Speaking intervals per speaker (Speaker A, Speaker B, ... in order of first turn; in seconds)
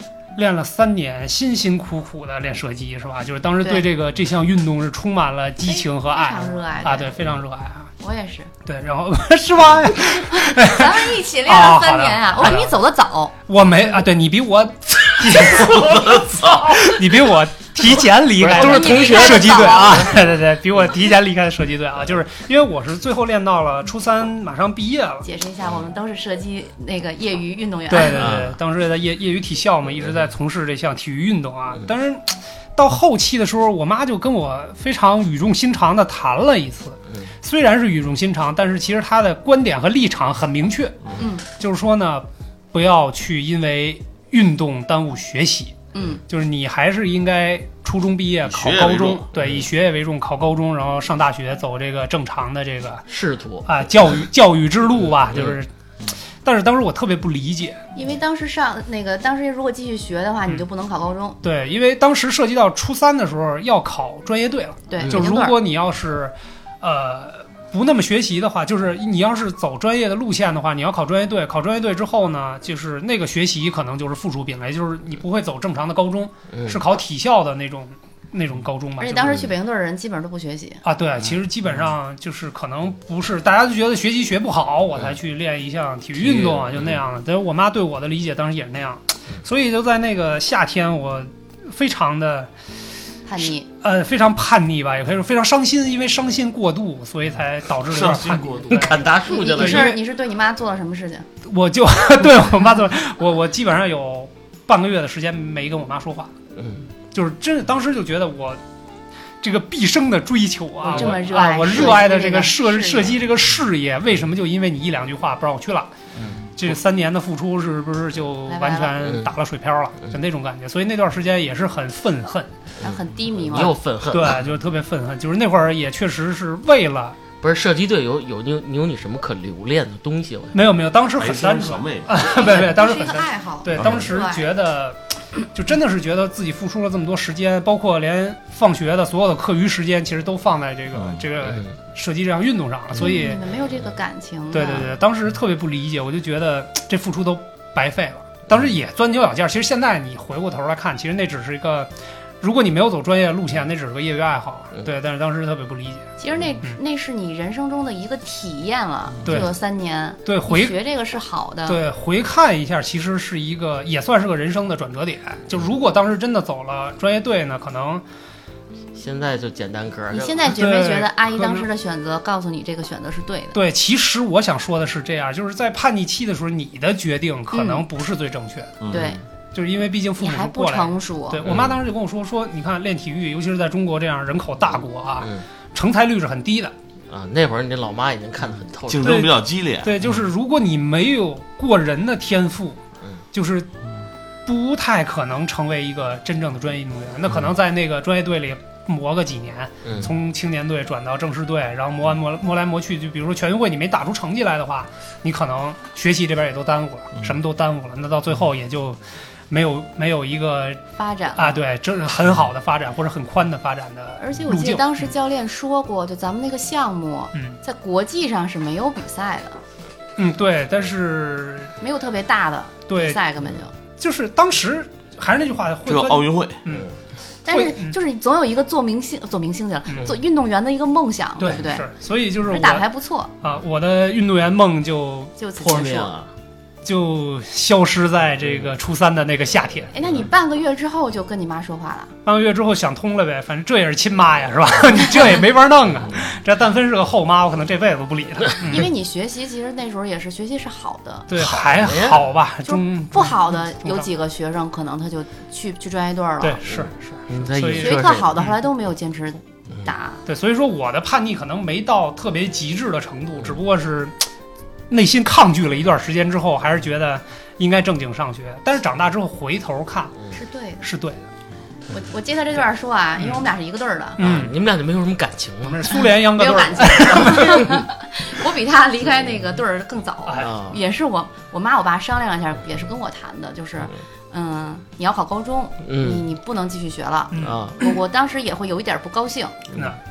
Speaker A: 0.3-7.9, 8.7-12.8, 13.5-25.2, 27.9-45.8, 46.3-53.0, 53.6-55.7, 56.4-57.8, 61.4-79.4, 80.8-92.5, 93.7-100.0, 101.4-106.3, 107.1-108.6, 109.4-115.9, 116.5-122.5, 124.1-127.2, 130.5-143.4, 144.5-156.1, 159.2-159.5, 160.2-160.8, 161.7-168.0, 170.5-171.7, 173.5-178.8, 179.5-186.7, 189.0-192.8, 193.3-193.7, 194.4-210.8, 211.3-215.1, 220.2-221.7, 222.9-223.2, 224.0-226.9, 227.5-228.0, 229.9-230.1, 231.4-232.8, 233.4-235.3, 236.8-239.9, 242.2-248.9, 251.3-254.1, 256.4-258.5, 260.2-264.3, 264.9-270.2, 270.8-271.3, 274.2-274.5, 275.6-277.7, 280.2-280.5, 287.3-287.6
Speaker B: 3.6-3.9, 5.6-7.1, 8.0-8.5, 10.3-13.3, 18.5-20.2, 25.2-28.3, 41.2-41.4, 45.9-46.2, 57.9-61.4, 64.9-65.6, 79.0-80.8, 93.2-93.7, 99.2-101.2, 110.8-113.2, 118.5-119.0, 122.8-123.8, 132.2-134.5, 142.9-144.9, 156.2-161.8, 170.1-173.6, 177.5-177.8, 178.9-179.2, 180.2-181.4, 210.9-211.6, 214.2-219.6, 221.8-223.7, 227.4-231.9, 232.4-233.3, 235.4-236.1, 239.9-242.1, 248.6-251.3, 252.6-256.6, 257.7-260.2, 270.3-270.9, 271.9-274.2, 276.3-289.6
Speaker C: 15.4-16.8, 48.4-49.3, 97.8-99.1, 131.2-132.2, 140.9-141.2, 178.8-179.2, 188.9-190.0, 225.8-226.6
Speaker D: 18.4-20.1, 28.1-28.6, 53.1-53.7, 55.3-55.6, 76.5-76.8, 86.1-87.0, 98.7-100.0, 106.5-106.8, 119.0-119.3, 123.5-124.4, 127.4-130.6, 168.9-170.6, 181.4-181.8, 187.1-189.2, 199.8-200.1, 226.7-226.9, 235.6-236.3, 251.3-252.3, 256.7-258.3, 274.2-276.0, 280.4-280.8, 285.8-286.2, 287.4-287.8